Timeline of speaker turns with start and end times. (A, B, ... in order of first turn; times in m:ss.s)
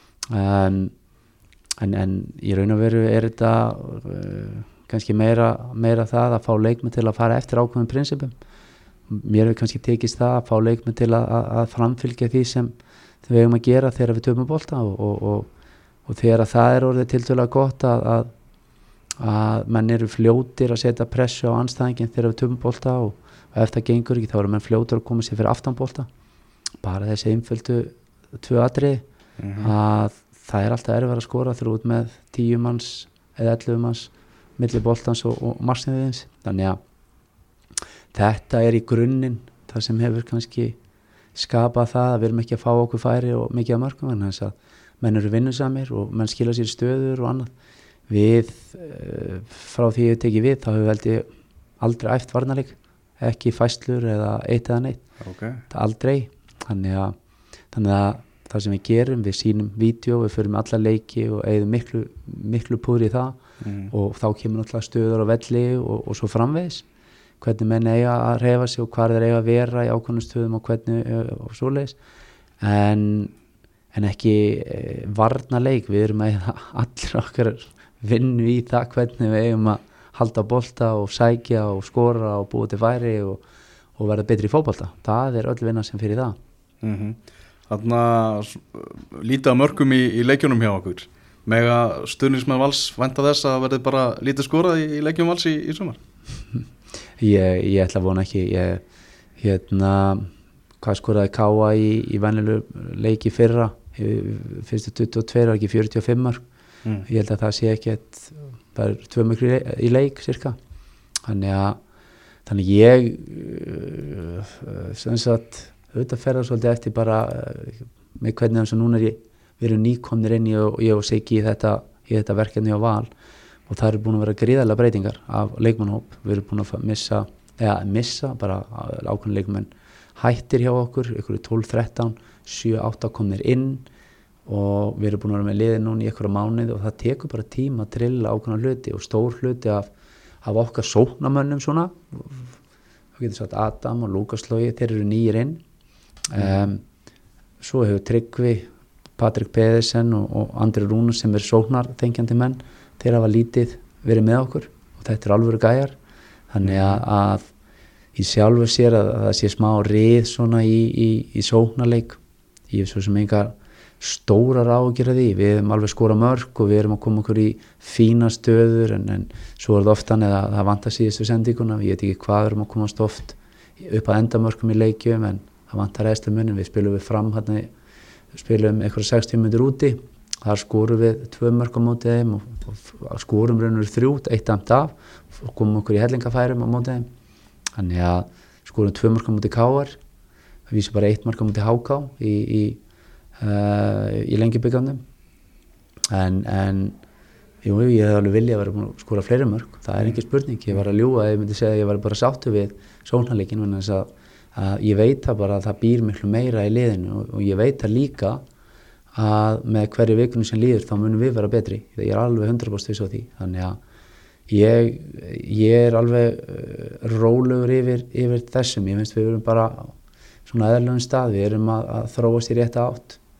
0:00.3-0:00.9 A
0:01.8-0:08.3 A
0:09.1-0:15.5 A
0:16.1-0:18.3 A
0:19.2-0:26.1 A
0:26.8-0:29.0 A
0:29.4-0:29.7 B
0:29.6-0:36.8 A
0:38.1-0:40.8 A
0:41.4-0:47.5 A
0:48.1-0:51.3 A
0:51.8-0:55.0 A
0:55.2-0:55.6 B
0:55.7-0:57.2 A
0:57.7-1:03.4 A
1:03.6-1:03.9 B
1:03.9-1:06.8 A
1:07.4-1:12.0 A
1:12.6-1:13.3 A
1:13.9-1:23.4 A
1:24.0-1:26.4 A
1:26.8-1:36.0 B
1:37.2-1:38.8 A
1:39.4-1:40.3 A
1:40.8-1:46.4 A
1:47.1-1:50.6 A
1:51.3-1:51.8 A
1:52.5-2:03.1 A
2:03.7-2:13.9 A
2:14.5-2:19.9 A
2:20.4-2:22.5 A
2:23.2-2:25.6 A
2:26.3-2:26.8 A
2:26.4-2:26.7 B
2:27.6-2:36.0 A
2:36.5-2:37.5 A
2:36.6-2:37.0 B
2:38.2-2:42.2 A
2:42.7-2:57.7 A
2:58.3-3:07.1 A
3:07.8-3:10.0 A
3:10.7-3:12.8 A
3:13.4-3:15.0 A
3:16.1-3:17.0 A
3:17.6-3:28.4 A
3:29.1-3:33.8 A
3:34.5-3:40.0 A
3:40.5-3:43.2 A